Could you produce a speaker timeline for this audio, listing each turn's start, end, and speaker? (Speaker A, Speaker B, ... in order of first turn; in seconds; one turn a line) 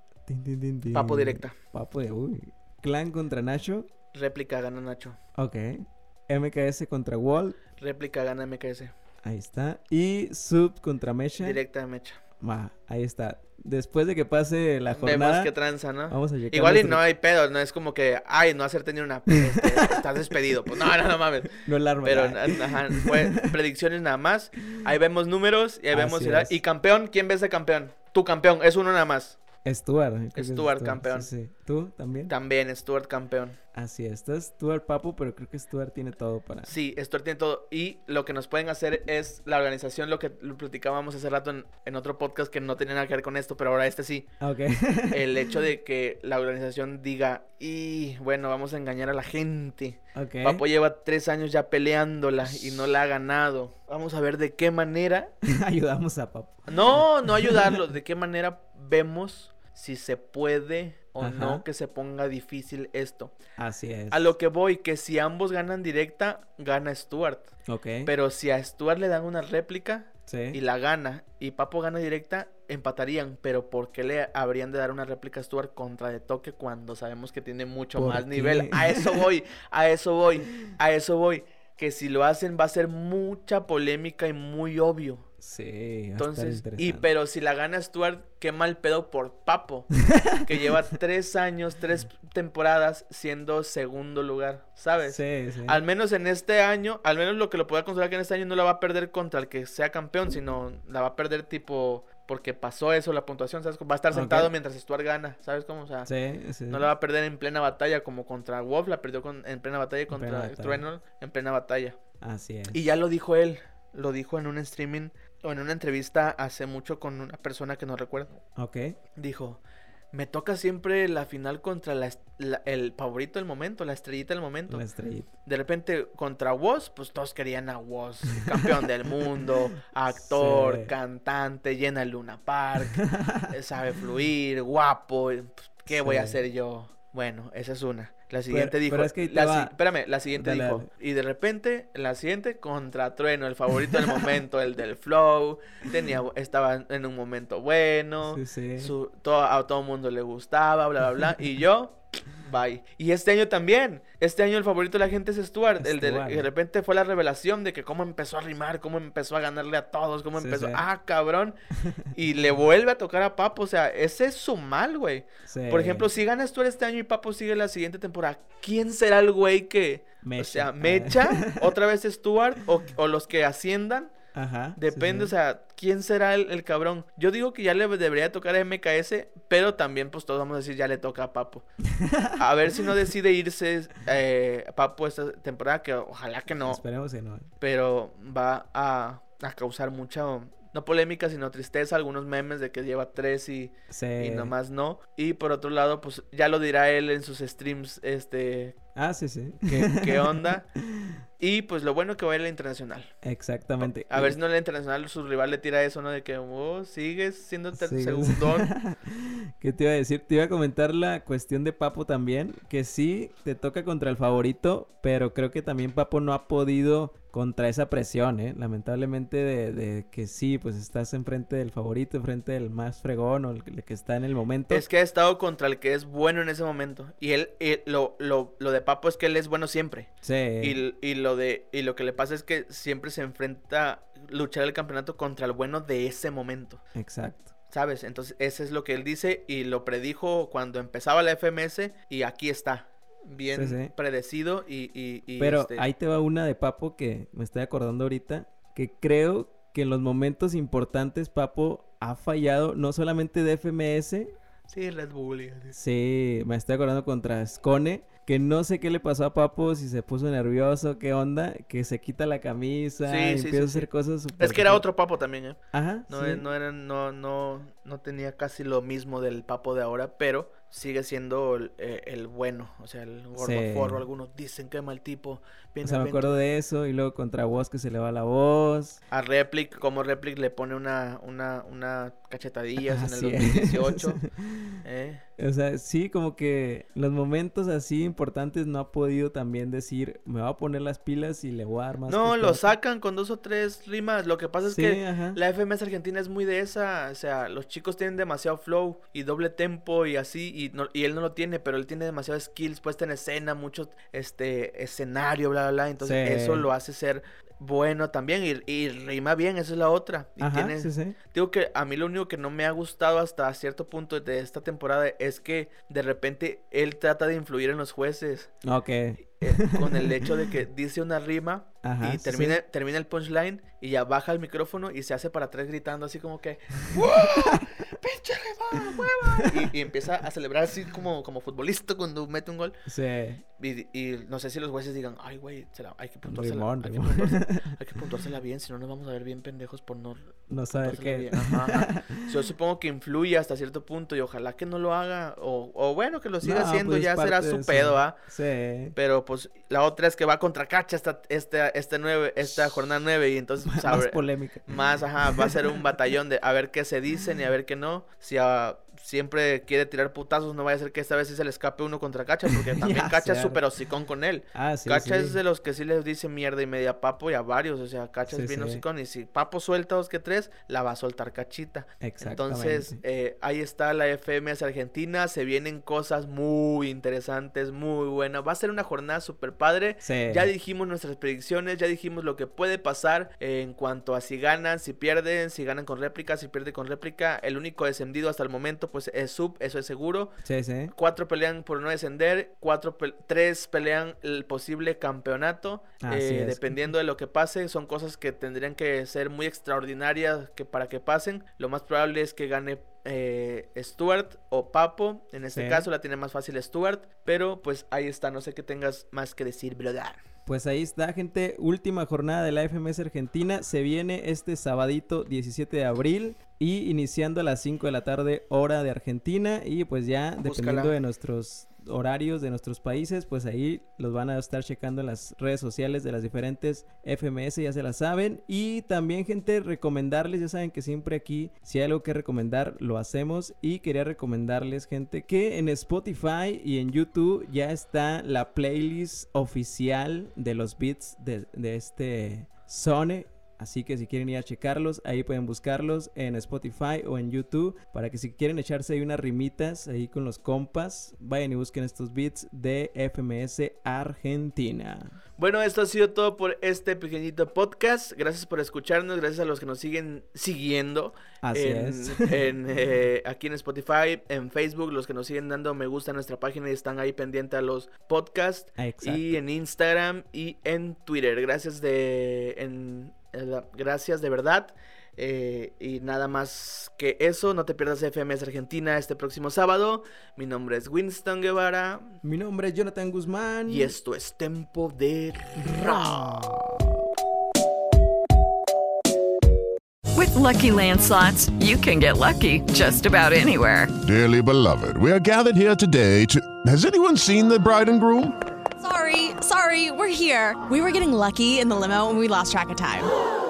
Speaker A: 0.3-3.9
Speaker B: 0.9-1.6
Speaker B: 4.1-5.2
Speaker A: 5.4-7.6
Speaker B: 7.8-8.9
Speaker A: 9.2-11.6
Speaker B: 11.4-12.2
Speaker A: 12.4-15.5
Speaker B: 14.9-29.4
Speaker A: 16.1-17.0
Speaker A: 19.4-20.1
Speaker A: 21.6-23.5
Speaker A: 25.9-26.6
Speaker A: 29.6-32.3
Speaker B: 30.4-31.3
Speaker B: 32.3-33.6
Speaker A: 33.7-36.8
Speaker B: 36.7-44.3
Speaker A: 44.4-45.5
Speaker B: 45.1-55.3
Speaker A: 50.2-50.6
Speaker A: 52.4-52.9
Speaker A: 55.5-57.8
Speaker B: 56.7-63.4
Speaker A: 61.2-61.6
Speaker A: 63.6-64.3
Speaker B: 64.1-67.5
Speaker A: 67.7-68.1
Speaker B: 68.0-85.3
Speaker A: 70.3-70.6
Speaker A: 78.0-79.3
Speaker A: 85.4-87.1
Speaker B: 86.2-89.9
Speaker A: 90.0-90.7
Speaker B: 90.4-106.1
Speaker A: 95.0-95.8
Speaker A: 104.1-104.5
Speaker A: 106.1-106.9
Speaker B: 106.7-112.0
Speaker A: 110.1-110.8
Speaker A: 112.2-112.8
Speaker B: 112.7-118.4
Speaker A: 118.6-119.0
Speaker B: 119.2-119.6
Speaker B: 120.1-124.8
Speaker A: 124.7-125.3
Speaker B: 125.5-161.6
Speaker A: 128.5-129.3
Speaker A: 130.2-130.9
Speaker A: 132.8-133.5
Speaker A: 135.9-136.4
Speaker A: 138.5-139.8
Speaker A: 140.3-140.9
Speaker A: 148.2-148.9
Speaker A: 155.8-156.5
Speaker A: 160.3-160.9
Speaker A: 161.8-162.1
Speaker B: 162.1-174.2
Speaker A: 165.5-166.1
Speaker A: 170.2-171.7
Speaker A: 174.3-175.3
Speaker B: 174.8-181.7
Speaker A: 181.9-182.4
Speaker B: 182.4-186.8
Speaker A: 186.7-187.5
Speaker B: 187.6-198.8
Speaker A: 193.9-194.5
Speaker A: 198.9-201.2
Speaker B: 199.7-200.6
Speaker B: 201.4-203.1
Speaker A: 203.2-204.4
Speaker B: 203.8-208.7
Speaker A: 207.7-224.8
Speaker B: 224.7-236.8
Speaker A: 230.2-230.8
Speaker A: 236.9-237.5
Speaker B: 237.7-245.9
Speaker A: 243.5-243.9
Speaker A: 245.4-254.3
Speaker B: 254.7-255.8
Speaker A: 255.7-264.8
Speaker B: 263.1-276.3
Speaker A: 265.7-266.4
Speaker A: 273.4-274.1
Speaker A: 275.8-279.0
Speaker B: 279.1-284.2
Speaker A: 282.8-284.8
Speaker B: 284.8-285.2
Speaker A: 285.4-292.8
Speaker B: 292.1-318.6
Speaker A: 294.7-295.4
Speaker A: 306.0-306.7
Speaker A: 310.4-311.2
Speaker A: 318.6-320.5
Speaker B: 319.4-332.8
Speaker A: 321.8-322.6
Speaker A: 328.7-329.7
Speaker A: 332.9-333.4
Speaker B: 333.6-348.2
Speaker A: 336.2-337.7
Speaker A: 340.5-342.4
Speaker A: 346.4-349.0
Speaker B: 348.9-390.4
Speaker A: 352.4-352.8
Speaker A: 353.6-355.8
Speaker A: 362.6-363.6
Speaker A: 364.5-365.4
Speaker A: 368.3-368.8
Speaker A: 372.0-373.0
Speaker A: 380.0-380.5
Speaker A: 390.4-390.9
Speaker B: 390.9-410.2
Speaker A: 396.0-396.8
Speaker A: 405.5-405.9
Speaker A: 410.5-455.2
Speaker B: 420.4-420.9
Speaker B: 455.4-482.2
Speaker A: 461.4-462.5
Speaker A: 468.8-469.4
Speaker A: 482.2-484.0
Speaker B: 483.7-486.6
Speaker A: 485.6-486.7
Speaker C: 490.1-493.9
Speaker D: 494.0-498.4
Speaker E: 498.8-503.1